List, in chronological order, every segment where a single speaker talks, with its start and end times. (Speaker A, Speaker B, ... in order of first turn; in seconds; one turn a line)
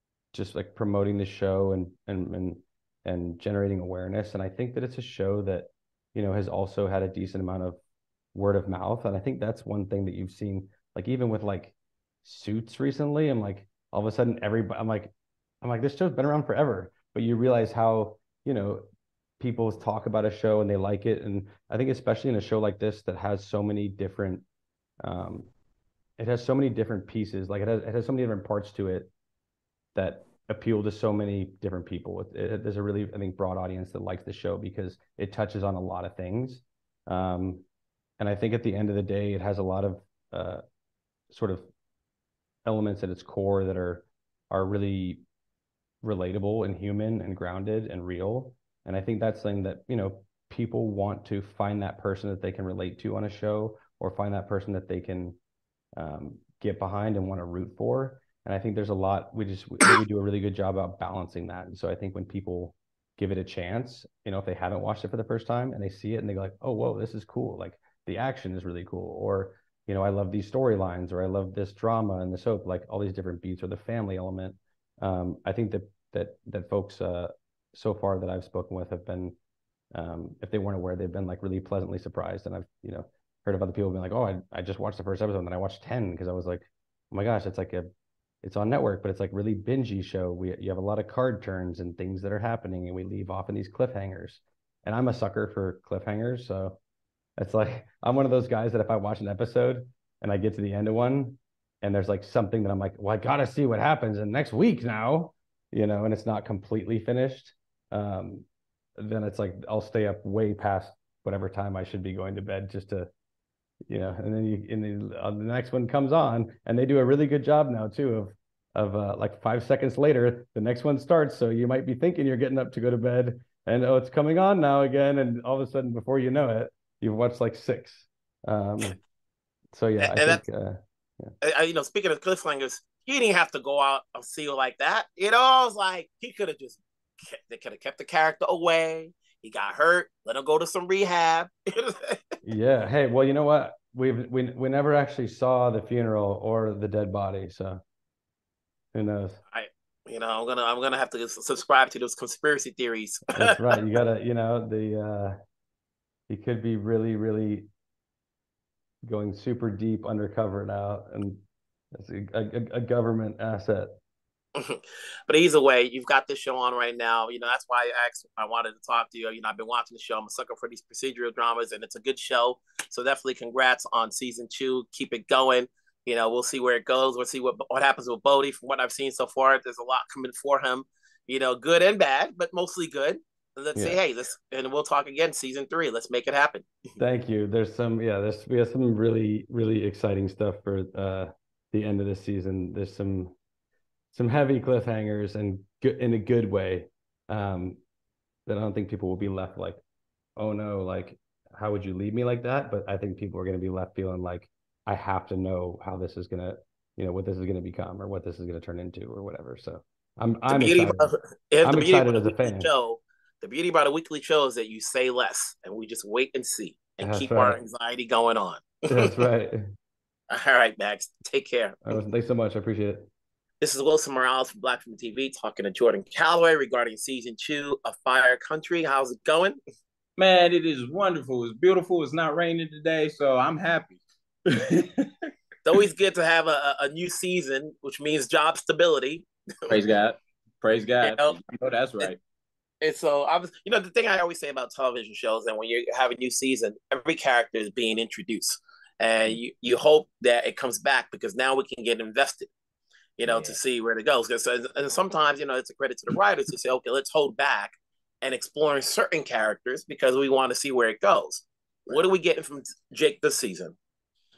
Speaker A: 0.3-7.8
Speaker A: 8.3-15.1
Speaker A: 15.6-18.9
Speaker A: 19.4-24.4
Speaker A: 25.0-25.5
Speaker A: 26.2-29.1
Speaker A: 29.9-37.6
Speaker A: 38.2-40.6
Speaker A: 41.3-41.7
Speaker A: 42.6-45.2
Speaker A: 46.0-55.4
Speaker A: 56.0-79.3
Speaker A: 79.9-87.9
Speaker A: 88.4-96.8
Speaker A: 97.4-108.5
Speaker A: 109.0-113.1
Speaker A: 113.9-129.0
Speaker A: 129.7-131.3
Speaker B: 130.0-130.4
Speaker B: 131.4-142.2
Speaker A: 142.4-147.8
Speaker A: 148.9-149.4
Speaker B: 149.5-153.8
Speaker A: 153.3-155.4
Speaker A: 156.3-157.7
Speaker A: 159.1-163.9
Speaker B: 164.6-186.7
Speaker A: 187.0-193.3
Speaker A: 194.1-197.8
Speaker A: 198.5-199.8
Speaker A: 200.4-211.1
Speaker B: 210.5-219.2
Speaker A: 211.6-212.7
Speaker A: 217.0-217.6
Speaker A: 218.9-219.6
Speaker B: 220.3-221.8
Speaker A: 221.8-223.1
Speaker B: 223.6-229.6
Speaker C: 230.2-235.1
Speaker B: 235.7-239.3
Speaker C: 239.7-242.2
Speaker B: 241.0-241.4
Speaker B: 242.8-252.5
Speaker B: 253.2-263.8
Speaker C: 253.3-253.6